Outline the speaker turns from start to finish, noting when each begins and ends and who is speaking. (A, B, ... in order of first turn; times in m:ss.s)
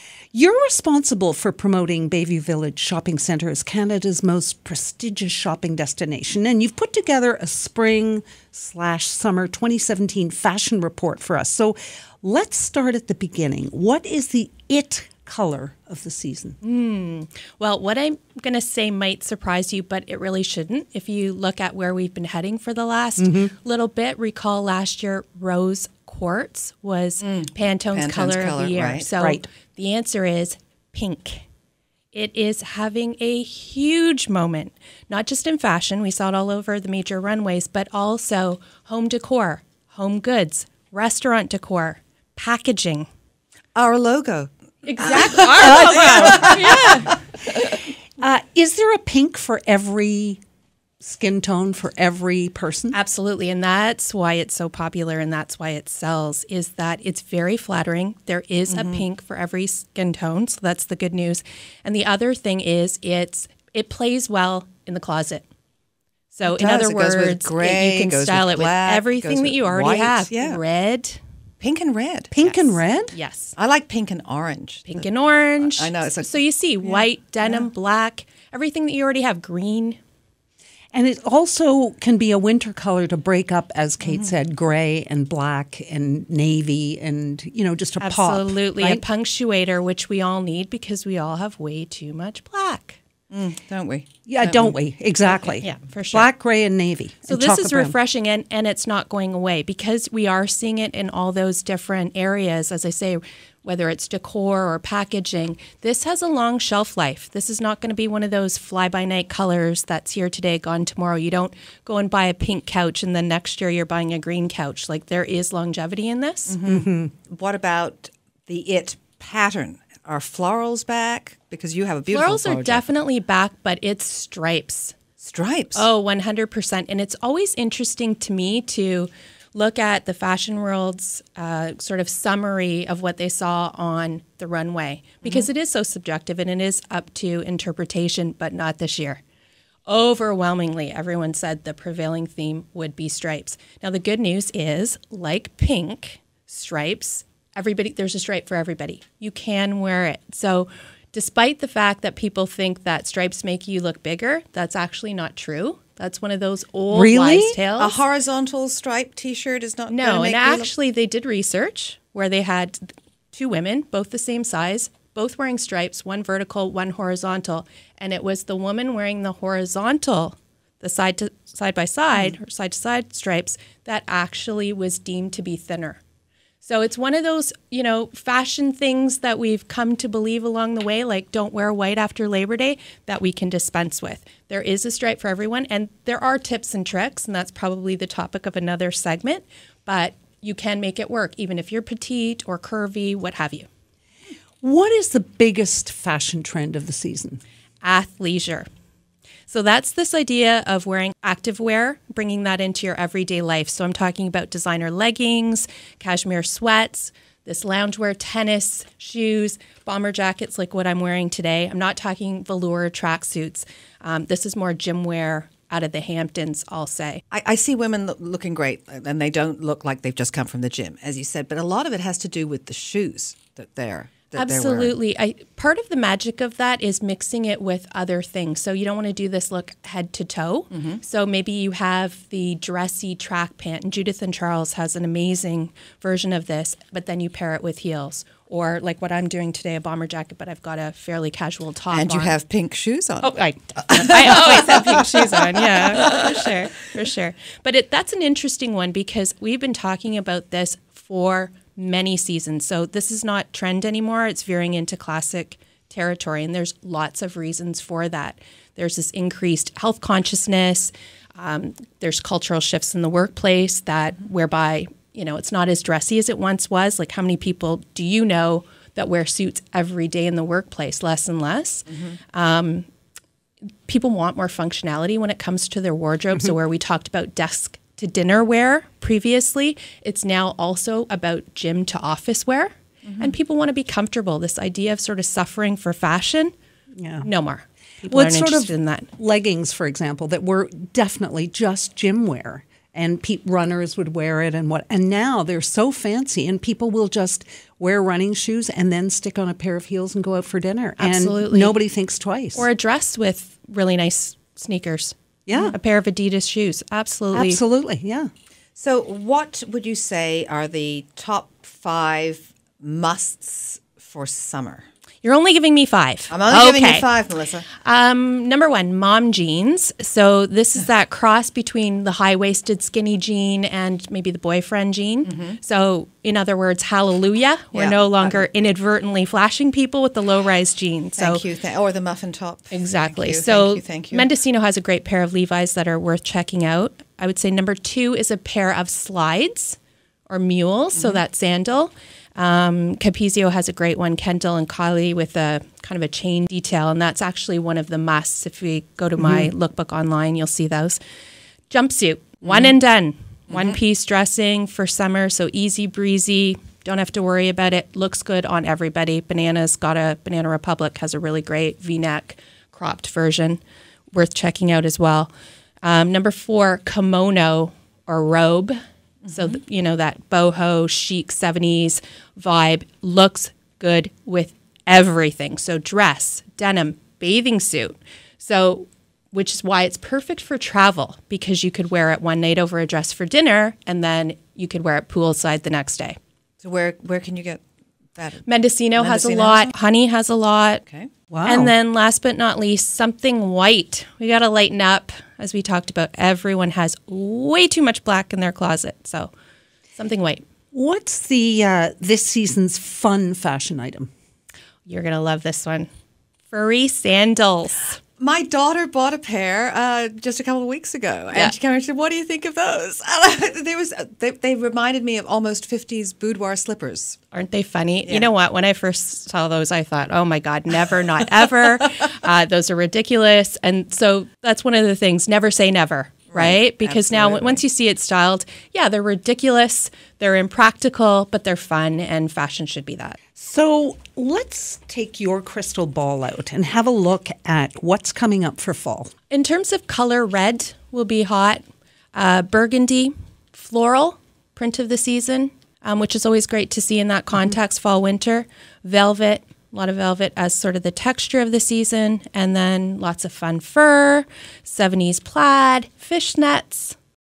0:00.3-0:16.6 A
0:16.6-0:31.4 B
0:23.2-0:23.5 A
0:27.2-0:29.1 C
0:29.2-0:29.4 A
0:32.1-0:43.0 B
0:43.7-0:47.8 C
0:44.8-0:47.1 B
0:45.6-0:46.7 A
0:47.6-0:50.4 A
0:51.0-0:53.0 A
0:52.9-1:05.4 B
0:58.7-0:59.0 C
1:06.3-1:11.2 B
1:06.4-1:10.6 C
1:11.6-1:12.3 C
1:12.3-1:13.2 A
1:12.4-1:13.5 B
1:13.6-1:15.1 C
1:14.9-1:20.0 B
1:15.6-1:17.7 C
1:20.9-1:29.0 A
1:24.0-1:24.3 C
1:28.0-1:33.0 B
1:33.3-1:34.8 C
1:34.3-1:37.9 A
1:35.3-1:36.3 B
1:37.3-1:56.5 B
1:56.5-2:02.9 C
1:56.7-1:57.1 A
2:02.1-2:05.0 B
2:05.2-2:05.8 C
2:05.7-2:19.2 B
2:15.2-2:15.5 C
2:19.9-2:38.0 B
2:36.9-2:37.6 A
2:37.8-2:40.7 C
2:39.9-2:56.0 B
2:56.6-3:13.7 B
3:14.6-3:17.4 A
3:17.8-3:18.7 B
3:19.5-3:37.2 B
3:37.3-3:44.9 C
3:44.3-4:02.4 B
3:50.7-3:51.0 C
4:01.9-4:06.5 C
4:03.2-4:32.9 B
4:33.8-4:46.5 B
4:43.0-4:43.4 C
4:47.0-4:47.3 A
4:47.2-4:49.1 B
4:48.1-5:02.7 A
5:01.0-5:01.7 B
5:02.5-5:07.6 B
5:05.5-5:05.8 A
5:07.3-5:08.3 A
5:08.8-5:14.8 C
5:15.2-5:17.1 B
5:16.3-5:17.7 C
5:17.7-5:31.4 B
5:25.2-5:25.6 C
5:27.7-5:28.5 C
5:31.2-5:34.3 C
5:32.7-5:51.0 B
5:40.9-5:41.2 C
5:49.2-5:49.5 A
5:51.7-6:03.6 B
5:52.4-5:52.7 C
5:53.5-5:53.8 C
6:04.1-6:05.3 B
6:05.8-6:26.2 B
6:09.2-6:09.5 C
6:26.6-6:27.6 C
6:28.2-6:29.7 C
6:28.4-6:30.8 B
6:31.3-6:31.7 A
6:31.4-6:39.3 B
6:40.0-6:40.4 B
6:40.7-6:44.1 A
6:44.8-6:45.9 B
6:46.5-6:48.0 B
6:48.2-6:57.2 C
6:57.3-7:13.2 B
6:58.0-6:58.3 C
7:06.3-7:07.6 C
7:13.4-7:19.1 A
7:19.3-7:21.6 B
7:22.1-7:37.0 B